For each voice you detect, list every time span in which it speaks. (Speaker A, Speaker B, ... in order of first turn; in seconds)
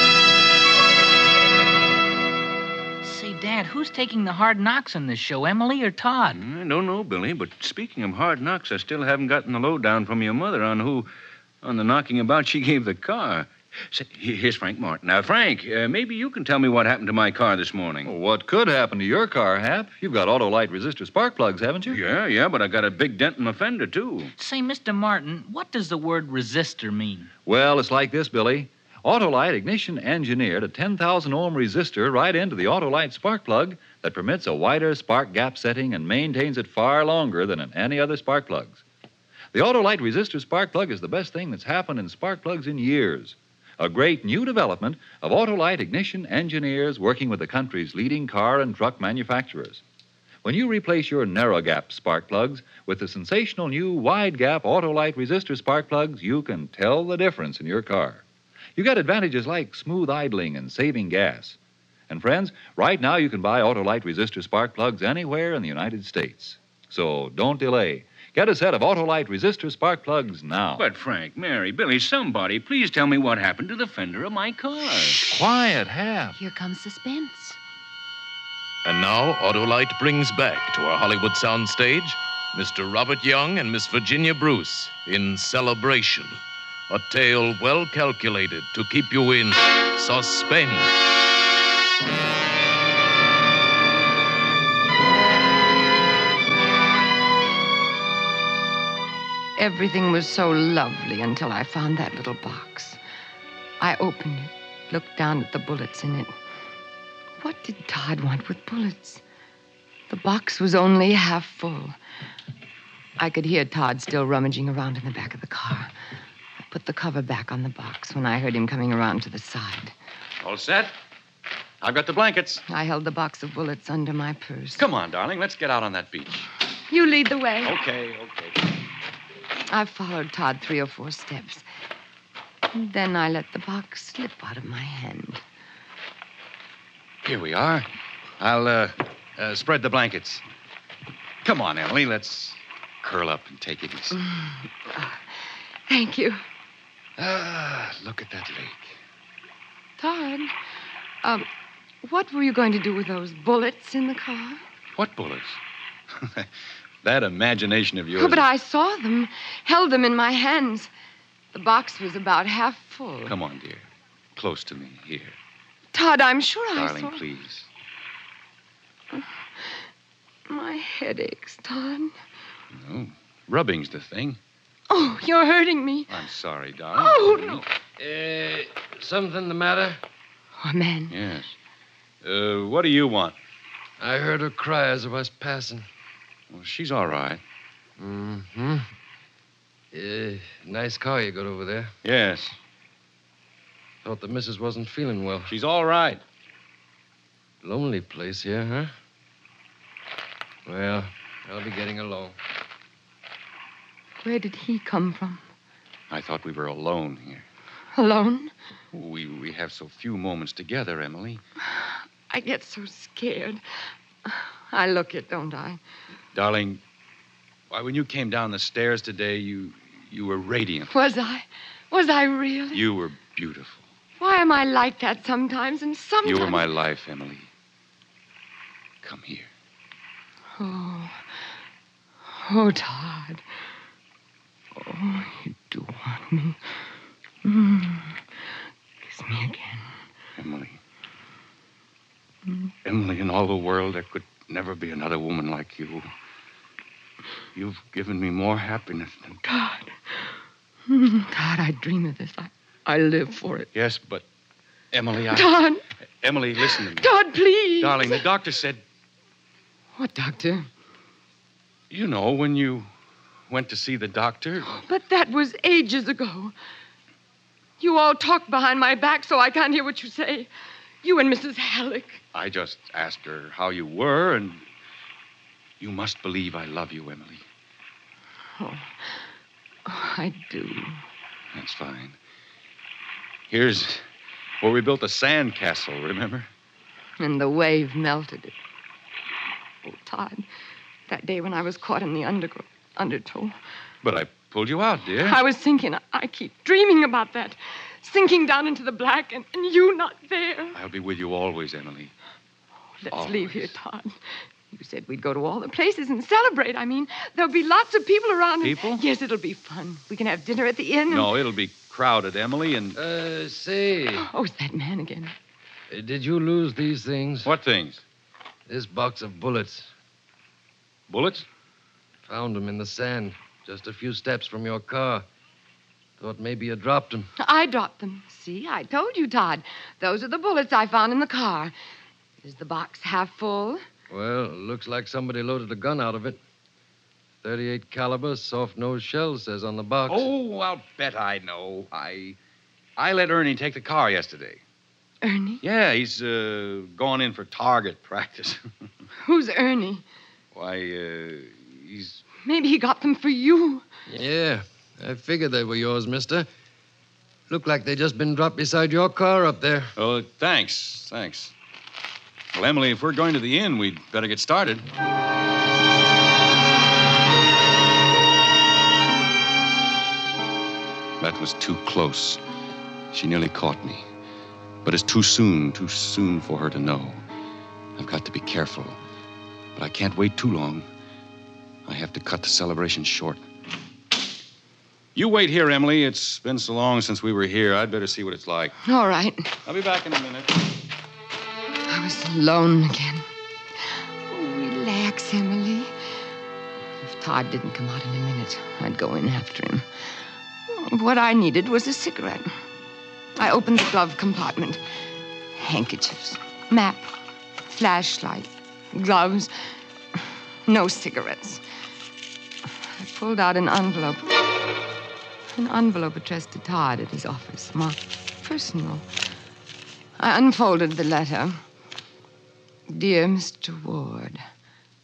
Speaker A: 3.0-6.4, 24.4-27.3
Speaker B: 6.3-11.1, 11.6-18.1, 21.9-24.3, 70.8-75.3
Speaker C: 18.1-22.0, 27.4-38.8, 39.5-49.8, 50.4-58.2, 58.8-61.6, 62.1-70.9, 75.2-76.3
Speaker D: 76.4-77.5, 99.6-103.0, 103.8-106.3, 107.4-109.2, 110.1-112.0, 113.2-115.9, 116.7-120.0, 122.7-124.8, 126.9-127.8, 129.7-131.6, 132.7-135.4, 144.3-145.2, 145.9-146.4, 150.0-150.5, 152.0-154.6, 158.2-160.9, 161.5-163.3, 165.9-167.2, 169.1-169.8, 170.5-172.1, 174.9-176.1, 176.9-177.6, 180.6-181.1, 204.2-205.4, 207.9-208.5, 211.7-213.6, 214.2-215.8, 220.9-222.8, 224.2-226.7, 230.6-231.2, 232.3-233.4, 234.8-236.7, 237.4-238.2, 239.0-239.9, 249.4-250.3, 250.9-253.7, 255.3-255.8, 256.9-258.2, 260.0-260.7, 264.7-266.5, 267.8-270.5, 271.0-272.2, 278.6-279.2, 279.9-281.0, 287.2-288.6, 289.8-290.4, 291.1-293.6, 295.2-300.8, 303.0-304.2, 304.7-311.3, 314.1-315.3, 327.4-331.7, 332.4-333.8, 345.2-345.6, 349.2-350.1, 352.4-353.9, 388.8-389.5, 391.9-393.2, 394.3-395.9, 397.0-399.9, 400.7-402.5, 403.4-404.8, 405.6-407.1, 407.7-409.5, 410.7-411.6, 413.0-414.3, 415.6-419.1, 420.2-421.6, 422.9-424.4
Speaker E: 78.8-86.4, 86.9-90.9
Speaker F: 120.4-121.0, 121.8-122.6, 124.8-126.5, 127.6-128.6, 137.2-137.9, 138.4-140.4, 141.4-144.2, 147.2-149.0, 154.9-155.6, 156.1-156.5, 157.0-158.4, 163.3-165.4, 166.8-167.7, 172.7-174.4, 176.1-177.7, 181.1-181.6, 182.2-183.4, 186.5-187.4, 192.0-192.6, 195.5-196.2, 206.1-207.5, 208.9-211.4, 216.3-216.8, 217.7-220.9, 222.7-223.8, 226.2-227.5, 229.0-229.5, 240.4-240.8, 242.8-246.1, 247.6-249.4, 253.7-254.3, 254.9-255.6, 256.2-257.2, 257.8-258.8, 261.9-262.9, 263.5-264.7, 272.3-274.6, 275.8-277.5, 281.5-282.2, 283.5-284.0, 284.6-286.5, 294.0-295.4, 300.7-302.1, 303.1-303.7, 308.6-309.0, 311.1-313.0, 317.4-318.0, 321.1-321.5, 340.1-342.4, 343.0-344.6, 345.6-348.7, 350.5-352.2, 360.0-361.5, 362.5-364.9, 371.2-372.4, 373.1-374.1, 374.8-377.2, 378.0-379.0, 379.8-380.9, 381.9-383.4, 385.1-388.8, 389.6-390.6
Speaker G: 178.0-180.0, 184.0-185.9, 188.0-188.9, 189.9-191.9, 194.0-195.6, 197.6-198.9, 200.7-202.4, 312.9-314.3, 315.9-317.5, 318.7-319.9, 322.3-325.3, 326.2-327.3, 334.1-336.4, 337.4-340.3, 354.1-356.5, 357.5-359.9